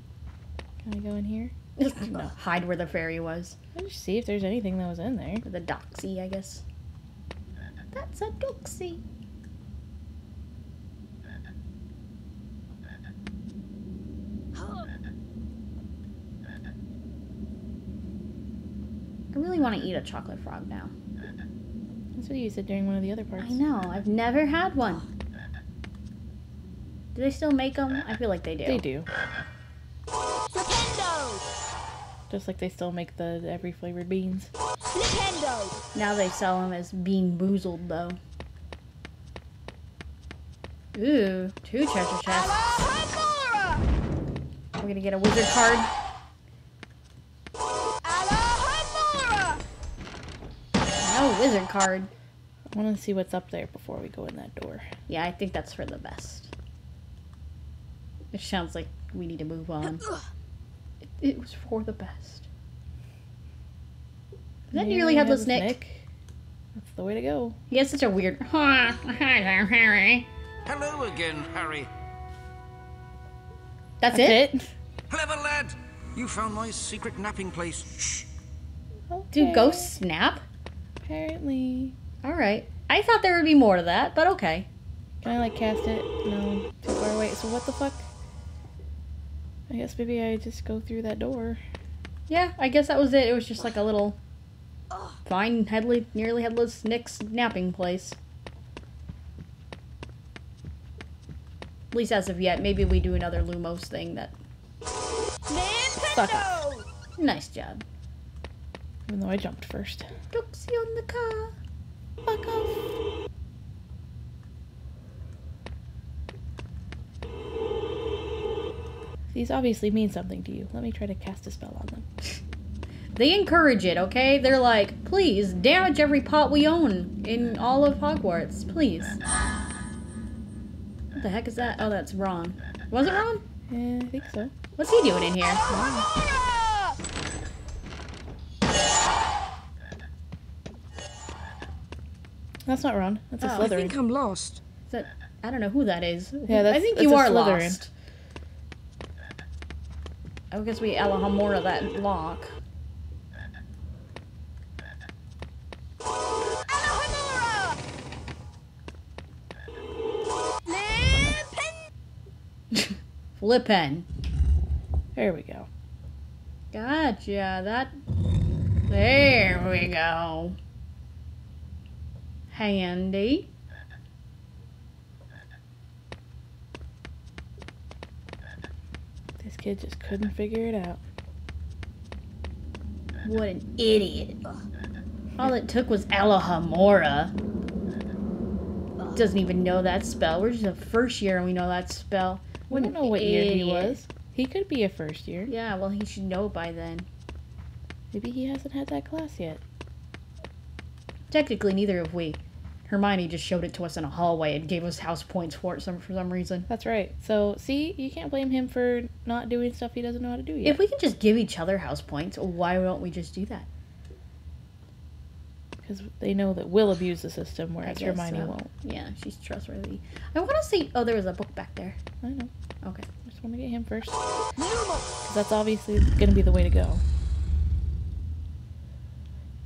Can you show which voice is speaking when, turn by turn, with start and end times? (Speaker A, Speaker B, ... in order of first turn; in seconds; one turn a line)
Speaker A: 0.8-2.3
Speaker B: 1.8-3.6
Speaker A: 3.8-5.5
Speaker B: 5.5-6.6
Speaker B: 7.9-9.0
Speaker B: 19.3-20.9
Speaker A: 22.2-23.6
Speaker B: 23.4-25.1
Speaker B: 27.1-28.8
Speaker A: 28.7-29.1
Speaker C: 30.5-31.4
Speaker A: 32.3-34.5
Speaker C: 34.9-35.7
Speaker B: 36.0-38.2
Speaker B: 41.0-42.6
Speaker B: 44.8-45.9
Speaker B: 51.0-52.1
Speaker A: 52.7-54.9
Speaker B: 55.1-56.5
Speaker B: 58.3-60.0
Speaker B: 61.2-62.5
Speaker B: 64.7-65.8
Speaker A: 64.7-66.0
Speaker A: 66.8-67.6
Speaker B: 67.7-70.3
Speaker D: 70.7-71.9
Speaker B: 74.0-74.4
Speaker A: 74.1-74.7
Speaker D: 75.1-78.3
Speaker A: 79.1-79.9
Speaker B: 79.3-80.4
Speaker A: 81.0-82.0
Speaker B: 82.2-84.7
Speaker A: 85.2-88.1
Speaker A: 89.7-91.6
Speaker B: 92.3-94.2
Speaker B: 95.3-98.2
Speaker B: 101.9-104.3
Speaker C: 105.5-106.0
Speaker A: 106.1-106.6
Speaker B: 107.2-107.8
Speaker A: 109.1-110.1
Speaker B: 110.3-111.6
Speaker A: 112.2-112.9
Speaker A: 119.3-122.1
Speaker B: 123.2-129.2
Speaker B: 131.1-133.4
Speaker A: 133.7-134.5
Speaker B: 134.8-135.6
Speaker A: 135.7-136.1
Speaker A: 142.7-144.0
Speaker B: 143.4-143.7
Speaker C: 143.6-144.6
Speaker B: 144.9-147.9
Speaker A: 146.5-147.8
Speaker B: 150.5-152.5
Speaker B: 162.7-164.1
Speaker A: 165.2-165.7
Speaker B: 166.7-167.9
Speaker B: 168.9-170.6
Speaker B: 172.5-173.5
Speaker A: 179.4-181.0
Speaker B: 183.2-184.4
Speaker B: 185.4-187.3
Speaker B: 189.1-194.0
Speaker A: 192.7-195.5
Speaker B: 195.5-197.1
Speaker A: 198.1-199.6
Speaker B: 201.3-206.7
Speaker A: 206.7-210.8
Speaker B: 210.6-213.7
Speaker A: 215.8-218.7
Speaker B: 217.8-222.0
Speaker A: 222.2-222.5
Speaker A: 223.2-224.2
Speaker A: 225.2-227.0